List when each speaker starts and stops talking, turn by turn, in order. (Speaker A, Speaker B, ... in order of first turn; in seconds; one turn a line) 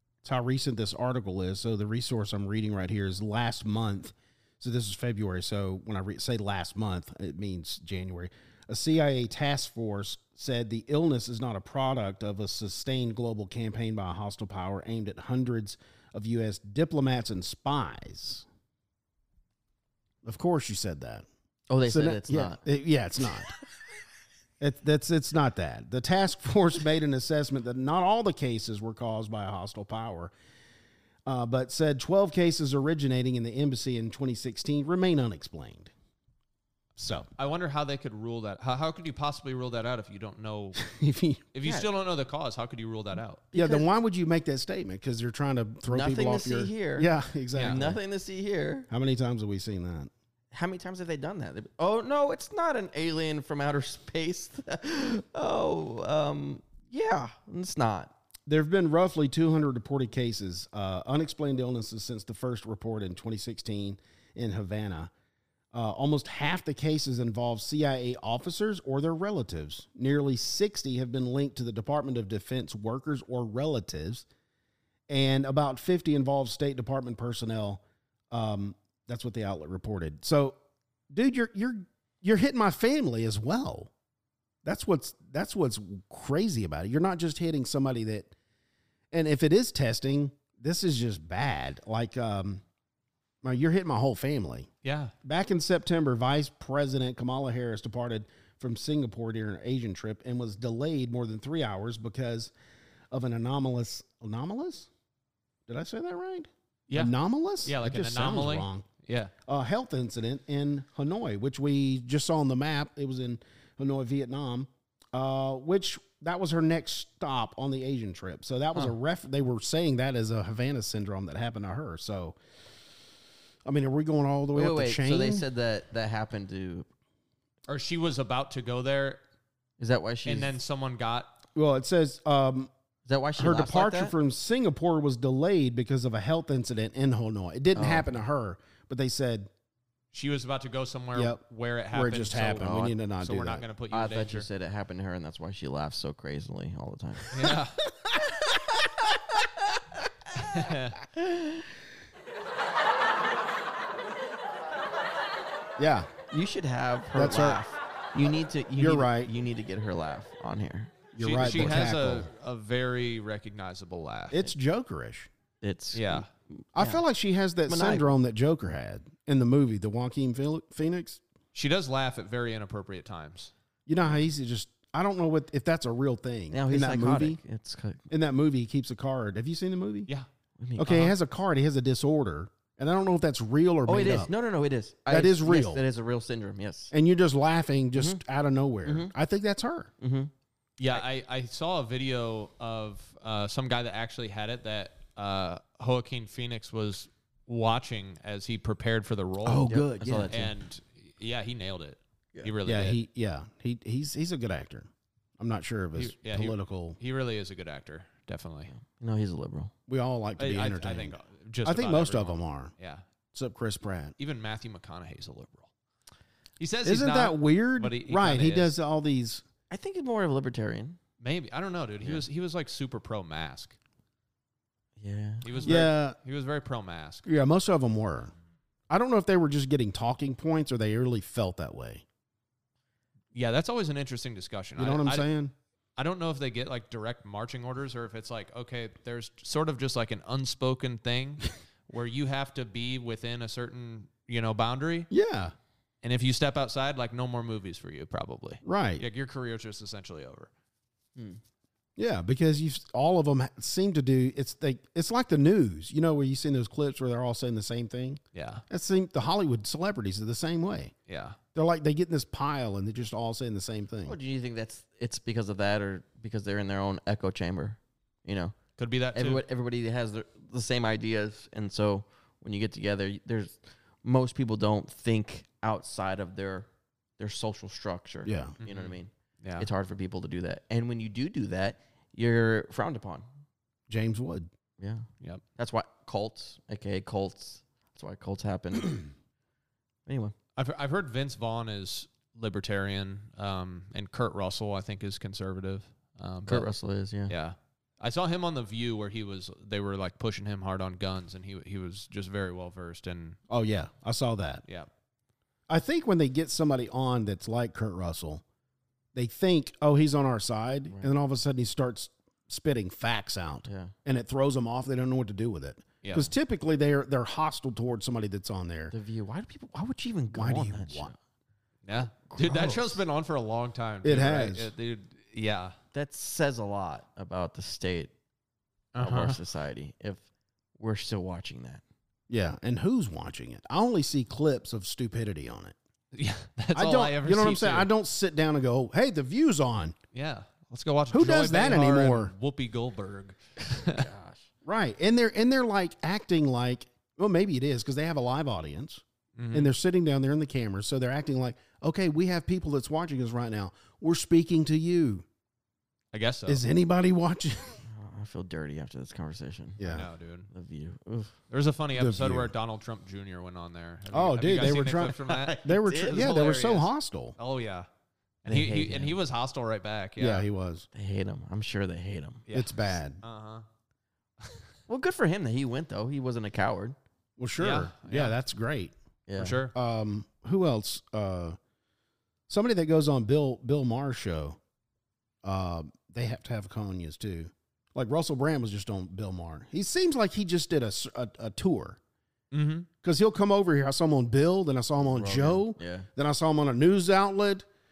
Speaker A: 0.2-18.4
Speaker A: 20.2-21.2
Speaker B: 21.7-22.6
Speaker A: 21.8-23.5
Speaker A: 24.6-30.3
Speaker A: 31.2-35.9
Speaker A: 37.0-37.3
Speaker C: 37.4-40.8
Speaker A: 40.8-41.4
Speaker C: 41.5-43.4
Speaker B: 43.5-43.9
Speaker A: 43.5-48.0
Speaker B: 45.9-47.1
Speaker C: 47.5-47.8
Speaker B: 47.6-48.9
Speaker A: 48.9-50.1
Speaker B: 50.5-58.1
Speaker A: 58.5-65.1
Speaker A: 65.7-74.2
Speaker A: 75.1-80.6
Speaker A: 81.1-83.9
Speaker A: 84.6-88.3
Speaker A: 89.1-92.6
Speaker A: 93.4-94.7
Speaker C: 94.8-95.1
Speaker A: 95.2-102.5
Speaker A: 103.1-104.9
Speaker A: 105.7-108.8
Speaker C: 106.9-109.3
Speaker A: 109.5-122.4
Speaker A: 123.6-125.4
Speaker B: 124.5-126.9
Speaker C: 127.7-129.2
Speaker B: 129.8-130.5
Speaker C: 130.2-131.3
Speaker A: 131.5-132.7
Speaker B: 133.1-134.1
Speaker A: 133.4-139.5
Speaker B: 137.7-138.1
Speaker C: 140.1-144.5
Speaker A: 141.1-143.6
Speaker B: 142.6-142.9
Speaker B: 143.9-147.4
Speaker C: 147.3-147.8
Speaker C: 150.3-151.0
Speaker B: 151.1-151.6
Speaker A: 155.8-156.1
Speaker B: 156.3-161.1
Speaker A: 157.1-157.6
Speaker A: 158.8-159.3
Speaker A: 161.1-162.3
Speaker C: 161.2-164.4
Speaker A: 164.3-165.3
Speaker B: 165.6-167.0
Speaker C: 165.9-166.3
Speaker A: 166.7-171.2
Speaker B: 167.7-168.1
Speaker C: 171.5-173.5
Speaker A: 173.9-177.4
Speaker B: 176.5-178.0
Speaker A: 178.1-180.1
Speaker B: 180.6-181.1
Speaker A: 180.8-184.3
Speaker C: 180.9-181.1
Speaker B: 183.8-186.9
Speaker A: 185.1-185.8
Speaker A: 186.9-189.9
Speaker B: 187.9-188.2
Speaker B: 188.8-189.1
Speaker B: 190.0-190.3
Speaker C: 190.8-199.8
Speaker A: 199.4-200.3
Speaker B: 199.7-200.5
Speaker C: 200.3-203.0
Speaker A: 202.7-207.0
Speaker C: 205.9-208.7
Speaker B: 208.7-209.7
Speaker A: 209.9-212.7
Speaker C: 210.4-213.0
Speaker A: 213.3-214.1
Speaker C: 214.2-215.7
Speaker C: 216.6-218.7
Speaker A: 216.8-219.4
Speaker B: 219.7-221.0
Speaker C: 221.2-223.8
Speaker B: 225.0-225.7
Speaker C: 225.4-227.2
Speaker A: 225.6-226.2
Speaker A: 227.2-228.3
Speaker A: 228.9-232.0
Speaker C: 233.3-235.3
Speaker A: 234.8-235.5
Speaker C: 236.0-245.1
Speaker A: 245.1-245.5
Speaker C: 246.0-250.5
Speaker A: 248.6-249.0
Speaker A: 252.0-260.9
Speaker C: 258.3-258.6
Speaker C: 261.1-261.4
Speaker A: 261.5-264.2
Speaker B: 264.0-268.5
Speaker C: 268.8-269.4
Speaker B: 269.1-276.7
Speaker B: 277.2-283.2
Speaker A: 278.2-278.6
Speaker C: 278.6-279.7
Speaker A: 283.9-284.5
Speaker B: 284.8-289.1
Speaker B: 290.1-290.3
Speaker C: 290.6-296.7
Speaker B: 296.5-297.3
Speaker C: 297.3-303.4
Speaker A: 303.5-304.6
Speaker A: 305.7-308.4
Speaker A: 309.1-318.9
Speaker B: 310.9-311.1
Speaker B: 313.6-313.9
Speaker C: 316.0-316.3
Speaker B: 318.9-321.1
Speaker A: 320.3-321.1
Speaker C: 321.9-325.7
Speaker B: 322.2-323.0
Speaker A: 324.0-324.7
Speaker B: 325.9-328.1
Speaker C: 328.9-329.4
Speaker B: 329.0-330.2
Speaker B: 330.8-331.8
Speaker A: 332.3-335.8
Speaker C: 336.1-337.9
Speaker A: 336.7-339.9
Speaker C: 340.1-344.1
Speaker A: 341.1-342.3
Speaker B: 343.8-344.5
Speaker A: 344.6-355.2
Speaker C: 349.4-349.7
Speaker C: 356.1-356.6
Speaker A: 356.5-357.8
Speaker B: 357.8-359.8
Speaker A: 359.8-360.1
Speaker C: 359.8-360.5
Speaker B: 360.5-361.3
Speaker C: 361.5-367.9
Speaker A: 361.9-362.5
Speaker A: 364.1-367.4
Speaker B: 365.1-366.3
Speaker C: 368.4-370.4
Speaker B: 368.4-369.1
Speaker A: 370.2-370.9
Speaker B: 370.9-372.4
Speaker C: 372.5-373.6
Speaker A: 372.5-373.2
Speaker B: 374.9-376.9
Speaker A: 377.4-378.9
Speaker C: 377.6-378.3
Speaker B: 379.3-379.6
Speaker C: 379.4-379.7
Speaker A: 379.7-381.6
Speaker A: 382.5-384.6
Speaker A: 385.4-392.0
Speaker C: 392.5-392.9
Speaker A: 393.0-397.6
Speaker B: 395.1-396.1